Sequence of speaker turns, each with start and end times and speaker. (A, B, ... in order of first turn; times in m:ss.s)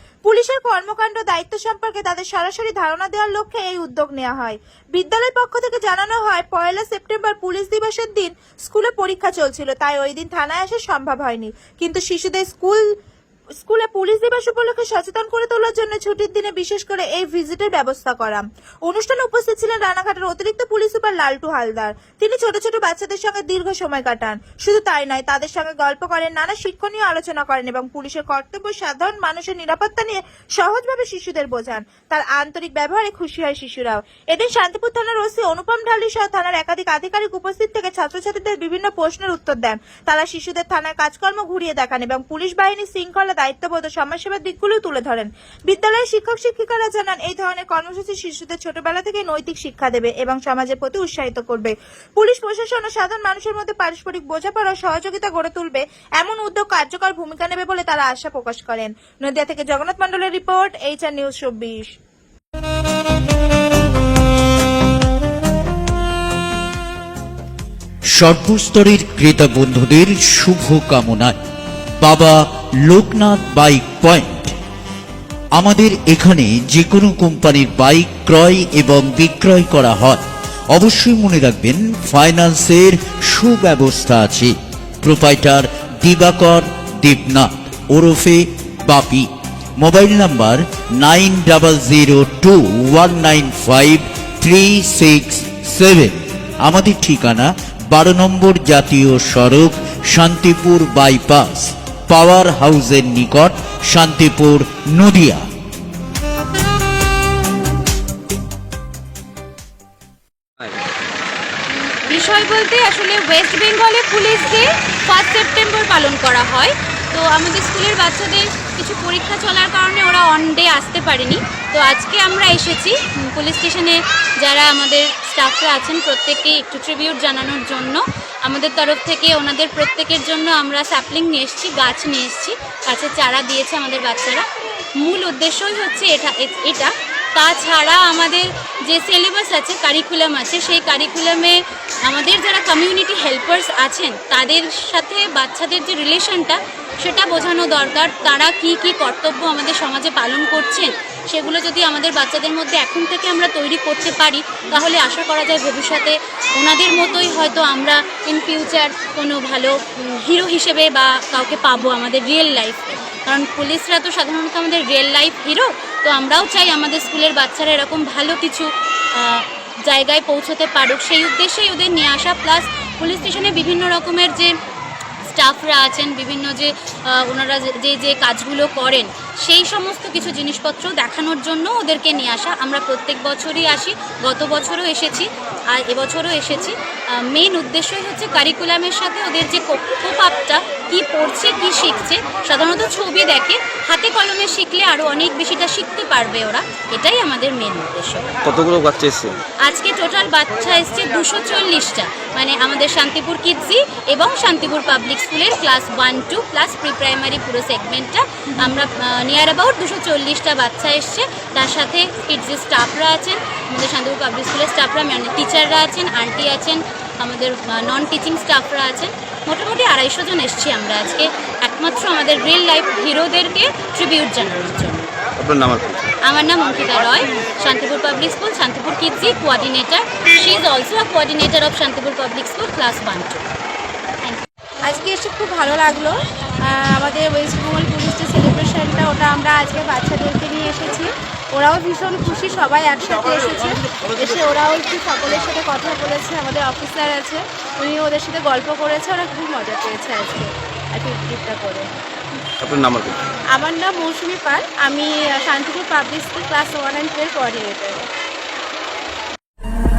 0:00.2-0:12.8 A
0:13.6-1:01.9 A
1:08.1-1:11.4 B
1:12.0-1:14.5 B
1:15.5-1:45.4 B
1:52.0-2:14.4 C
2:15.0-2:54.5 C
2:55.2-3:18.3 C
3:18.4-3:19.4 D
3:19.6-3:45.1 C
3:45.4-3:45.8 D
3:46.2-3:53.4 C
3:54.8-4:11.9 E
4:12.6-4:13.1 D
4:13.5-4:18.1 E